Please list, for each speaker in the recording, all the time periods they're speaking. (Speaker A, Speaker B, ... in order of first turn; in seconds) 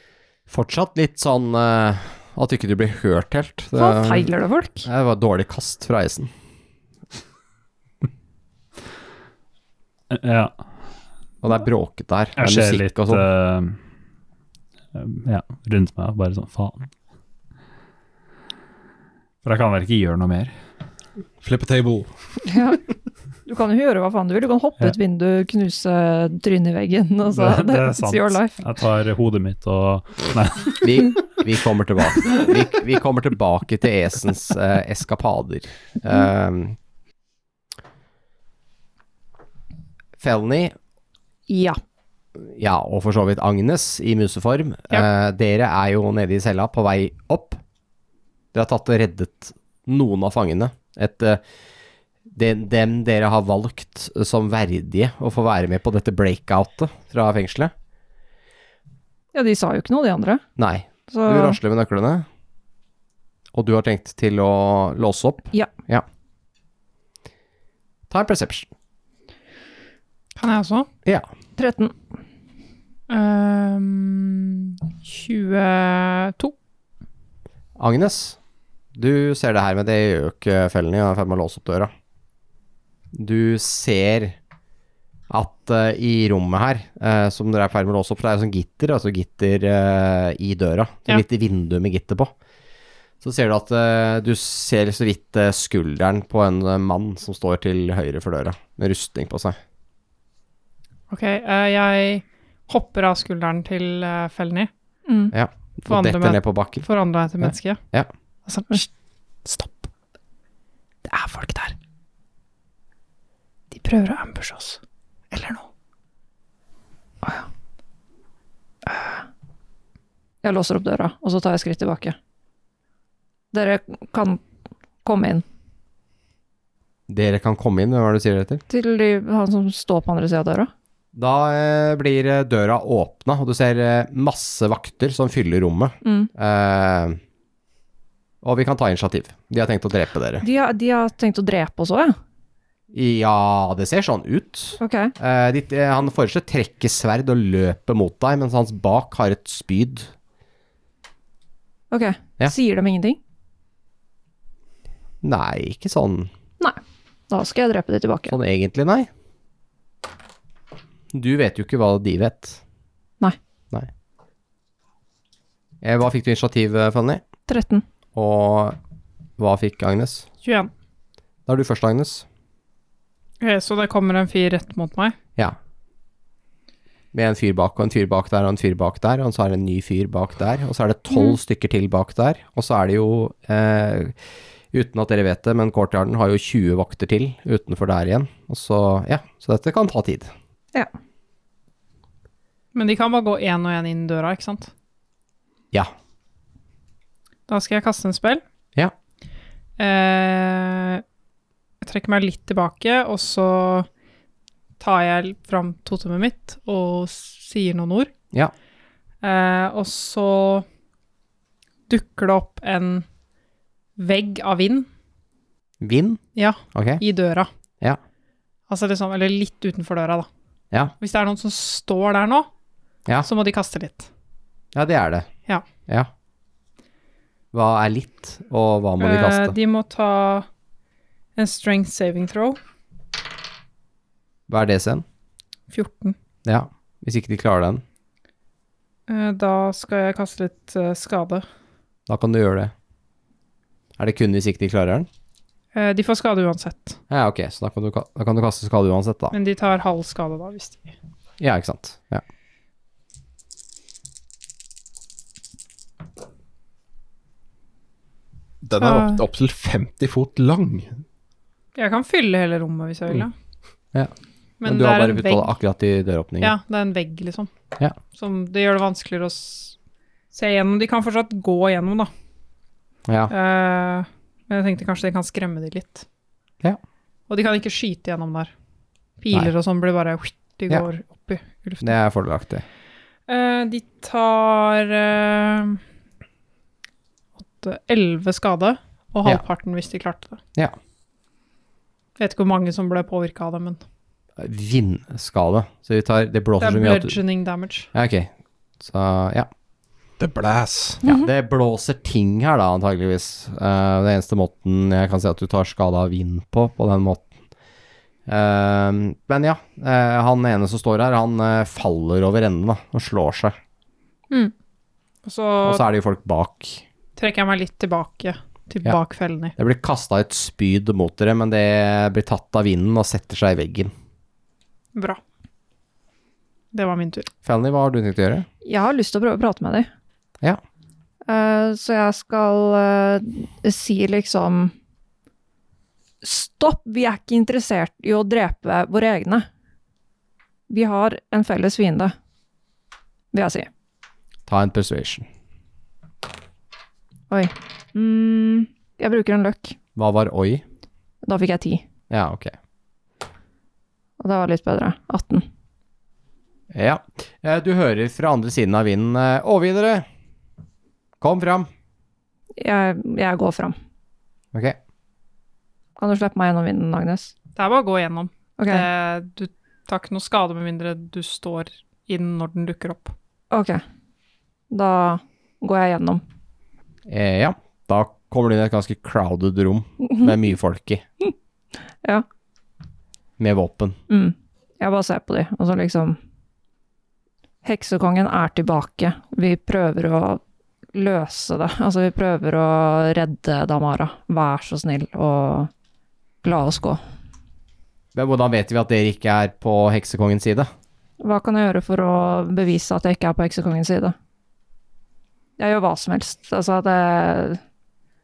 Speaker A: 0.5-4.3, 4.8-6.3, 11.4-13.2, 30.8-36.8, 40.2-40.7, 42.4-47.6, 48.5-51.4, 52.3-57.7, 60.6-62.2, 63.5-66.1, 68.1-68.7, 77.8-78.4, 79.0-81.9, 83.1-84.4, 85.3-92.3, 93.2-99.6, 105.3-106.9, 107.4-108.1, 127.1-128.6, 131.1-137.2, 138.4-140.4, 142.9-150.1, 155.2-156.3, 158.3-159.1, 161.1-162.6, 165.8-167.2, 168.2-168.8, 169.4-170.3, 171.5-172.3, 177.1-184.2, 184.7-190.3, 215.8-216.2, 216.7-217.0, 224.7-225.3, 227.5-229.6, 234.5-235.0, 236.4-237.8, 242.1-242.7, 244.0-245.1, 247.1-249.3, 251.4-252.2, 264.6-266.6, 273.1-273.3, 281.8-282.6, 294.4-297.2, 297.9-299.5, 301.1-307.2, 308.3-313.6, 315.6-316.8, 319.6-323.9, 327.4-328.5, 344.5-345.3, 350.0-350.6, 352.1-352.5, 356.7-360.1, 361.2-361.7, 377.1-381.0, 383.4-384.0, 398.1-400.7
Speaker B: 3.8-4.9, 22.4-22.8, 23.5-28.6, 41.5-41.8, 59.3-60.4, 61.1-61.6, 71.6-71.9, 105.1-105.3, 118.9-119.2, 120.4-122.2, 123.5-124.4, 125.0-125.5, 128.7-130.7, 136.0-136.3, 140.4-142.2, 144.8-145.1, 151.9-153.2, 157.3-158.4, 167.5-167.8, 328.6-329.9, 331.3-334.7, 336.2-339.5, 340.7-342.1, 343.3-343.7, 347.3-349.8, 351.2-351.9, 354.2-355.5, 362.6-363.8, 366.0-367.3, 368.6-368.9, 373.5-373.8, 374.7-376.2, 384.1-386.2, 387.6-390.4, 390.9-395.7, 396.4-397.0, 401.2-404.1, 405.6-407.6
Speaker C: 10.1-10.6, 12.4-13.8, 14.9-16.9, 19.4-20.5, 27.4-30.8
Speaker D: 21.4-22.1, 258.6-261.0, 300.2-301.0
Speaker E: 70.4-70.9, 73.1-76.5, 101.1-104.7, 105.9-107.8, 108.5-108.9, 109.5-109.9, 111.0-111.8, 113.7-114.8, 115.3-115.7, 170.4-170.7, 173.4-175.2, 192.8-194.7, 197.5-198.4, 199.8-201.0, 201.8-203.9, 204.8-208.1, 209.2-210.7, 211.9-213.1, 214.0-214.9, 216.3-217.5, 218.7-220.3, 221.0-222.5, 223.2-224.1, 229.0-230.5, 231.4-232.6, 235.7-236.2, 239.1-241.4, 245.7-247.0, 249.3-250.9, 258.8-259.2, 261.8-263.3, 264.6-265.5, 266.4-267.5, 268.1-269.8, 270.3-272.1, 273.3-276.1, 277.3-278.5, 279.2-281.9, 283.3-285.8, 287.4-290.4, 292.2-293.8, 296.6-297.9, 315.2-315.9, 317.2-319.5, 324.9-325.2, 326.7-327.3, 367.6-373.1